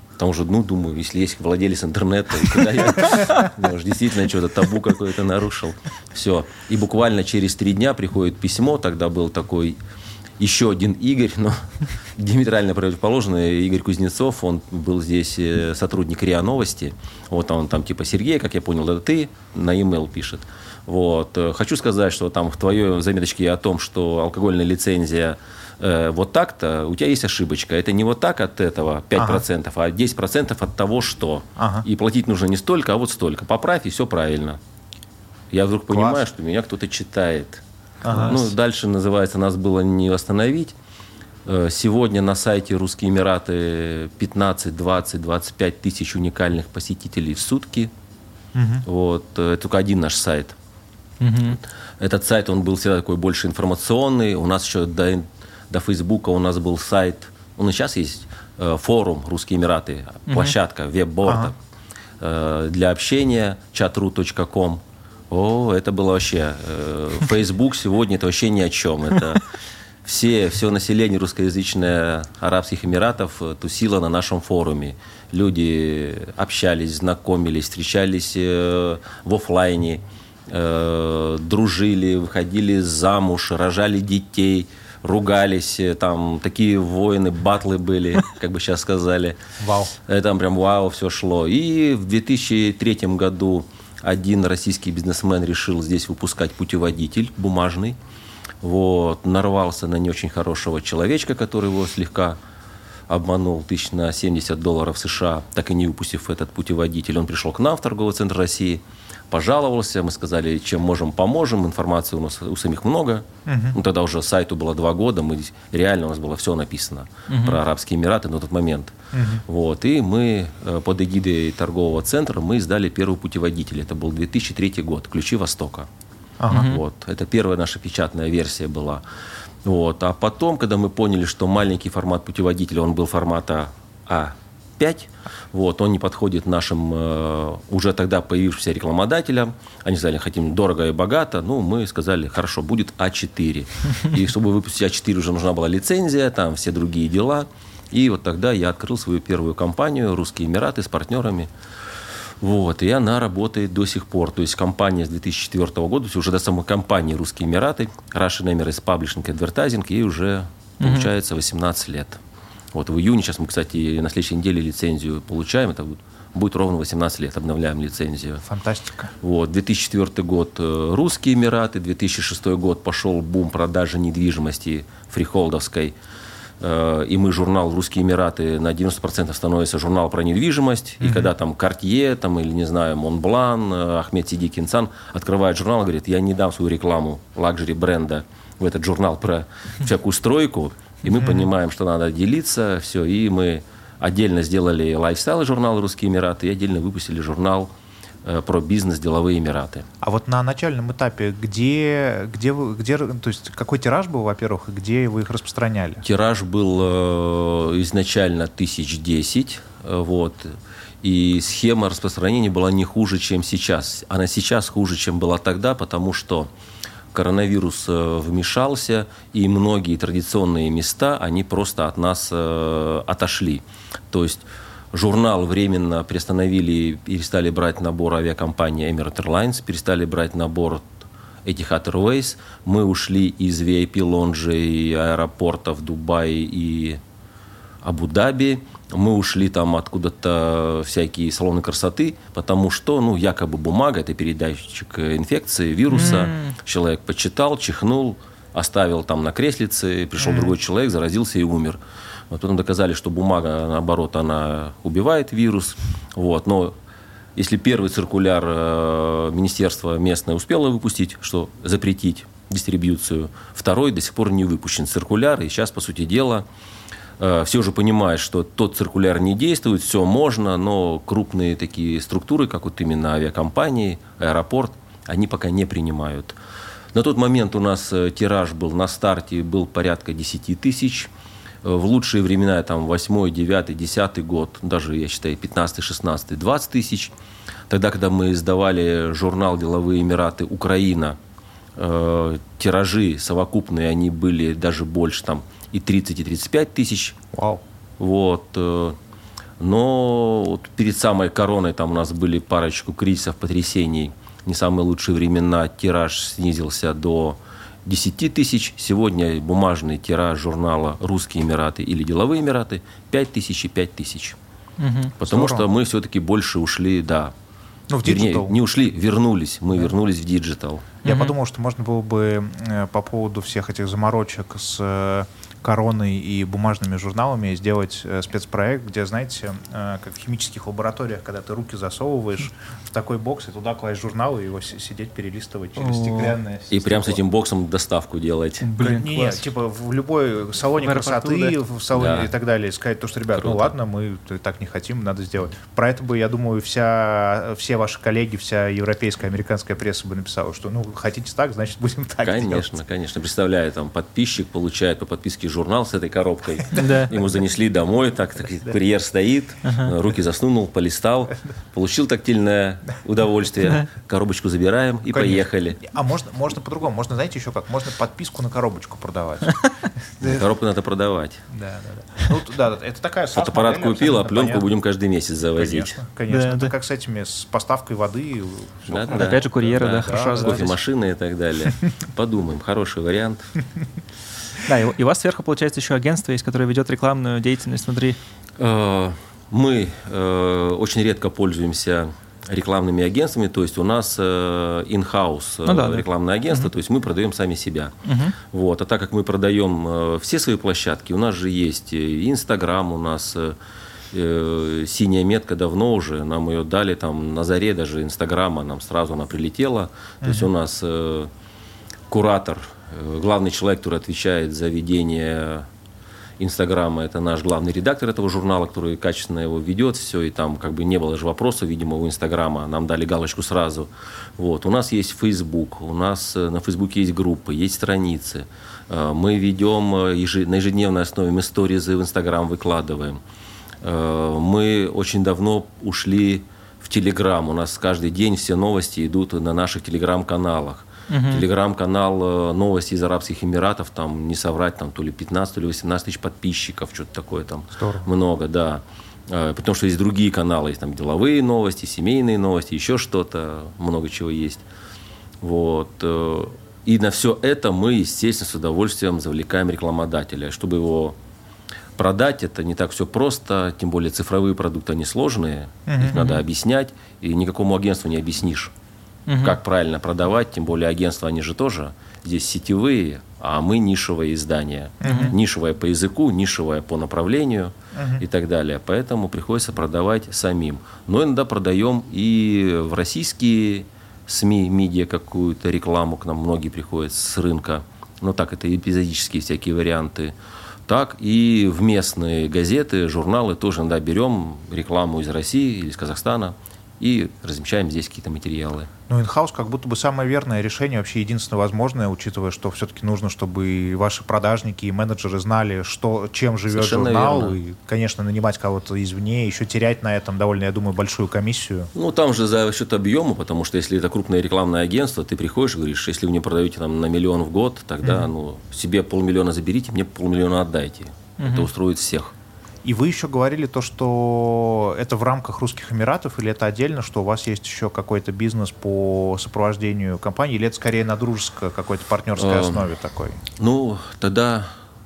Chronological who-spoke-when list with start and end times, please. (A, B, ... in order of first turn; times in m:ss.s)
0:00.2-0:09.8 A
0:10.4-0:34.6 A
0:29.2-0:29.4 B
0:31.6-0:31.8 B
0:35.5-0:40.7 A
0:35.9-0:36.2 B
0:38.0-0:38.4 B
0:38.1-0:38.4 C
0:41.4-0:47.9 A
0:48.5-0:48.8 B
0:48.8-0:50.6 A
0:51.2-0:51.6 C
0:52.0-1:01.6 A
1:00.3-1:00.6 C
1:01.2-1:01.5 B
1:02.2-1:09.4 A
1:10.0-1:29.4 A
1:29.6-1:29.9 B
1:30.0-1:38.0 A
1:38.6-1:42.4 A
1:43.1-1:58.9 A
1:53.4-1:53.8 B
1:57.3-1:57.6 C
1:59.1-1:59.4 B
1:59.4-2:05.9 A
2:06.4-2:06.7 B
2:06.5-2:06.8 C
2:06.5-2:09.0 A
2:09.6-2:31.5 A
2:32.4-2:42.2 A
2:40.8-2:41.1 C
2:42.7-2:48.4 A
2:48.4-2:49.1 B
2:49.2-2:55.9 A
2:56.6-3:17.7 A
3:01.0-3:01.3 B
3:11.1-3:11.4 B
3:18.2-3:19.9 A
3:20.0-3:26.0 B
3:26.0-3:36.5 A
3:37.1-3:50.9 A
3:51.4-3:57.0 A
3:57.8-4:16.7 A
4:05.9-4:06.5 C
4:10.2-4:10.5 B
4:17.4-4:26.4 A
4:27.2-4:36.4 A
4:36.9-4:41.1 A
4:41.6-4:47.1 A
4:47.7-4:51.2 A
4:51.8-4:57.2 A
4:57.3-4:57.6 B
4:58.0-4:59.0 A
4:59.6-5:14.4 A
5:14.8-5:15.2 C
5:15.2-5:17.3 A
5:15.2-5:15.7 B
5:17.9-5:18.6 B
5:18.0-5:20.9 A
5:21.0-5:21.3 C
5:21.0-5:37.2 B
5:35.8-5:36.4 C
5:36.7-5:38.6 A
5:38.6-5:39.4 C
5:38.8-5:52.7 B
5:40.8-5:41.6 C
5:41.9-5:42.3 A
5:43.3-5:43.7 A
5:52.2-6:05.8 A
5:56.7-5:57.1 C
5:59.6-5:59.9 C
6:05.1-6:10.5 B
6:10.2-6:11.4 A
6:11.5-6:14.7 B
6:13.3-6:16.0 A
6:15.6-6:20.6 B
6:16.3-6:16.7 C
6:18.9-6:23.4 A
6:19.1-6:20.8 C
6:24.6-6:28.2 C
6:28.6-6:43.6 A
6:35.6-6:36.7 C
6:38.0-6:38.4 C
6:44.1-6:51.3 A
6:50.2-6:50.5 B
6:52.1-6:55.7 A
6:56.4-7:13.2 A
7:13.8-7:34.6 A
7:21.1-7:21.4 C
7:27.7-7:28.1 B
7:35.4-7:41.2 A
7:42.0-7:48.7 A
7:45.9-7:46.3 B
7:49.3-7:49.6 C
7:49.4-8:10.3 A
7:55.0-7:55.3 B
7:55.0-7:55.3 C
7:57.9-7:58.2 B
8:10.9-8:18.9 A
8:19.1-8:31.9 B
8:26.7-8:27.6 A
8:31.9-8:42.3 A
8:41.4-8:41.7 C
8:42.8-8:53.4 B
8:52.4-8:52.8 A
8:53.6-8:54.7 A